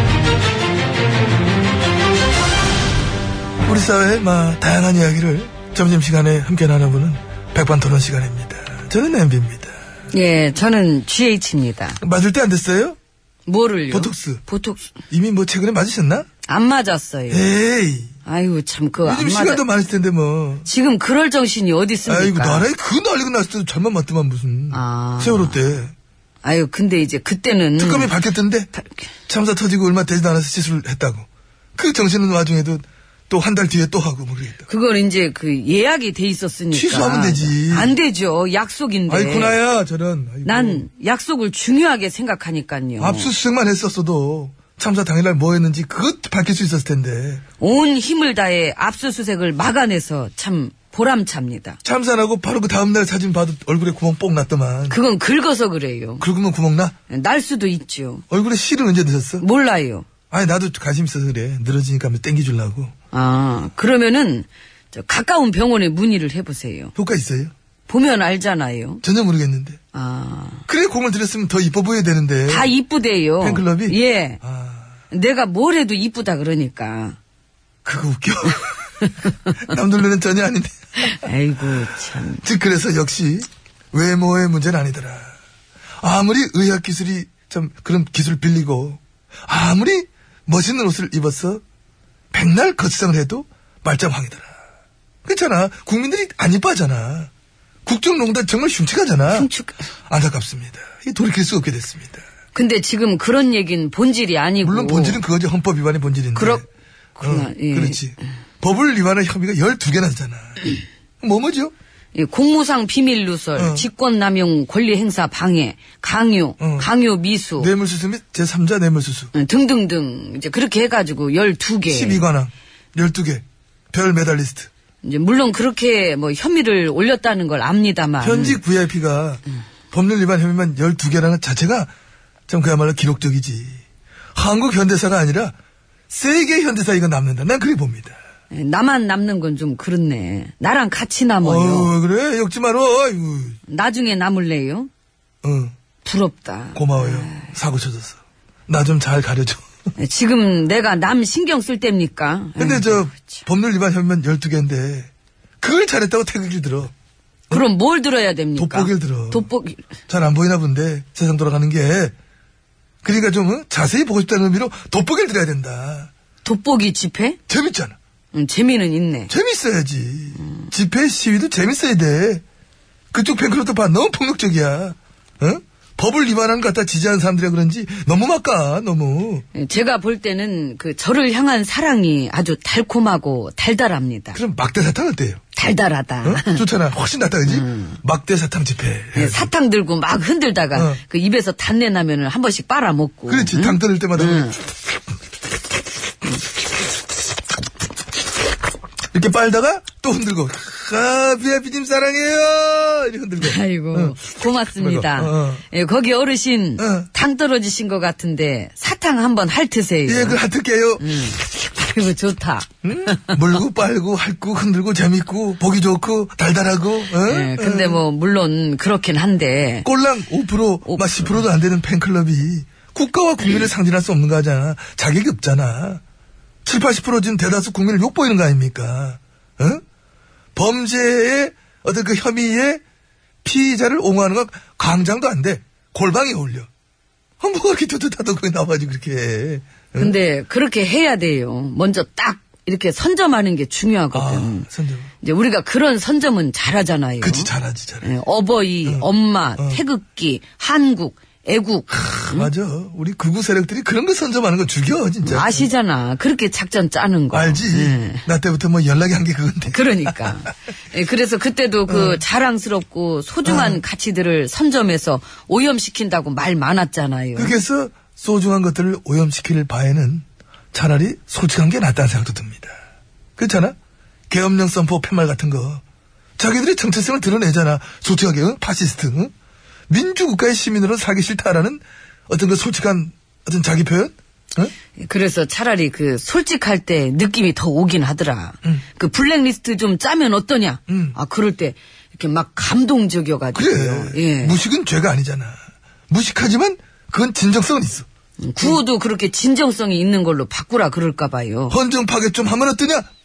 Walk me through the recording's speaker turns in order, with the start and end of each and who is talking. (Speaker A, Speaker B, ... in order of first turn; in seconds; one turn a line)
Speaker A: 3.6-9.8
Speaker B: 10.1-12.0
Speaker A: 12.0-13.0
Speaker B: 13.5-14.9
Speaker A: 13.9-14.4
Speaker A: 15.1-16.3
Speaker B: 16.5-17.5
Speaker A: 17.3-18.1
Speaker B: 18.3-19.6
Speaker A: 19.0-20.7
Speaker B: 20.6-22.7
Speaker A: 22.1-25.9
Speaker B: 24.7-25.6
Speaker B: 26.4-28.2
Speaker A: 27.8-28.7
Speaker A: 29.3-34.7
Speaker B: 34.7-39.6
Speaker A: 36.7-38.0
Speaker A: 39.1-40.8
Speaker B: 40.5-43.3
Speaker A: 43.0-47.4
Speaker B: 47.6-51.8
Speaker A: 51.8-55.0
Speaker B: 54.9-56.3
Speaker A: 56.2-57.0
Speaker B: 57.1-58.2
Speaker A: 58.3-59.4
Speaker B: 59.4-60.1
Speaker A: 60.3-62.9
Speaker B: 63.1-66.9
Speaker A: 67.0-67.5
Speaker B: 67.9-69.0
Speaker A: 69.0-69.8
Speaker B: 69.9-70.7
Speaker A: 70.7-72.7
Speaker B: 72.5-74.4
Speaker A: 73.4-74.9
Speaker B: 75.1-77.2
Speaker A: 77.8-78.8
Speaker B: 79.0-79.4
Speaker A: 79.6-80.7
Speaker B: 81.0-82.4
Speaker A: 82.4-85.3
Speaker A: 86.0-91.6
Speaker A: 92.3-94.5
Speaker A: 95.2-97.3
Speaker A: 97.9-99.5
Speaker B: 99.3-99.9
Speaker A: 100.1-102.2
Speaker B: 102.5-105.2
Speaker A: 104.6-106.7
Speaker B: 106.3-108.0
Speaker A: 107.2-111.7
Speaker B: 112.2-117.7
Speaker A: 113.6-113.9
Speaker A: 116.6-116.9
Speaker A: 117.6-119.3
Speaker B: 119.3-122.3
Speaker A: 121.9-124.7
Speaker B: 125.0-128.6
Speaker A: 128.2-131.9
Speaker A: 132.5-133.8
Speaker A: 134.3-135.6
Speaker A: 136.1-138.2
Speaker B: 138.5-141.9
Speaker A: 141.4-143.6
Speaker B: 143.7-144.9
Speaker A: 145.4-145.7
Speaker B: 146.0-147.5
Speaker A: 146.7-149.6
Speaker B: 150.0-153.4
Speaker A: 152.6-156.9
Speaker B: 157.5-159.8
Speaker A: 158.6-159.5
Speaker A: 160.1-162.1
Speaker A: 163.0-166.1
Speaker B: 166.4-167.4
Speaker A: 167.5-168.0
Speaker B: 168.3-169.3
Speaker A: 169.3-172.4
Speaker A: 173.1-179.5
Speaker B: 179.5-184.4
Speaker A: 184.3-185.4
Speaker B: 185.6-186.6
Speaker A: 186.2-189.5
Speaker B: 187.5-188.0
Speaker B: 189.2-194.6
Speaker A: 190.8-191.0
Speaker A: 193.3-194.6
Speaker A: 199.1-204.2
Speaker B: 203.4-210.4
Speaker A: 204.8-205.6
Speaker A: 206.8-207.1
Speaker A: 210.1-211.1
Speaker B: 211.0-213.4
Speaker A: 212.8-218.0
Speaker B: 217.2-219.9
Speaker A: 219.8-226.0
Speaker B: 220.9-221.4
Speaker A: 226.7-229.8
Speaker A: 230.6-232.8
Speaker A: 233.4-236.7
Speaker A: 237.4-240.2
Speaker B: 240.0-244.7
Speaker A: 244.1-245.1
Speaker B: 245.2-252.5
Speaker A: 247.2-248.1
Speaker A: 248.9-249.8
Speaker A: 252.3-255.7
Speaker B: 255.2-258.3
Speaker A: 257.3-260.4
Speaker B: 259.7-267.6
Speaker A: 261.9-262.2
Speaker A: 263.4-263.8
Speaker A: 267.4-272.8
Speaker A: 273.4-273.8
Speaker A: 274.3-275.8
Speaker A: 276.4-279.3
Speaker A: 279.9-284.7
Speaker B: 285.0-294.6
Speaker A: 290.9-291.2
Speaker A: 293.5-295.6
Speaker A: 296.1-298.1
Speaker B: 298.4-301.8
Speaker A: 301.7-303.1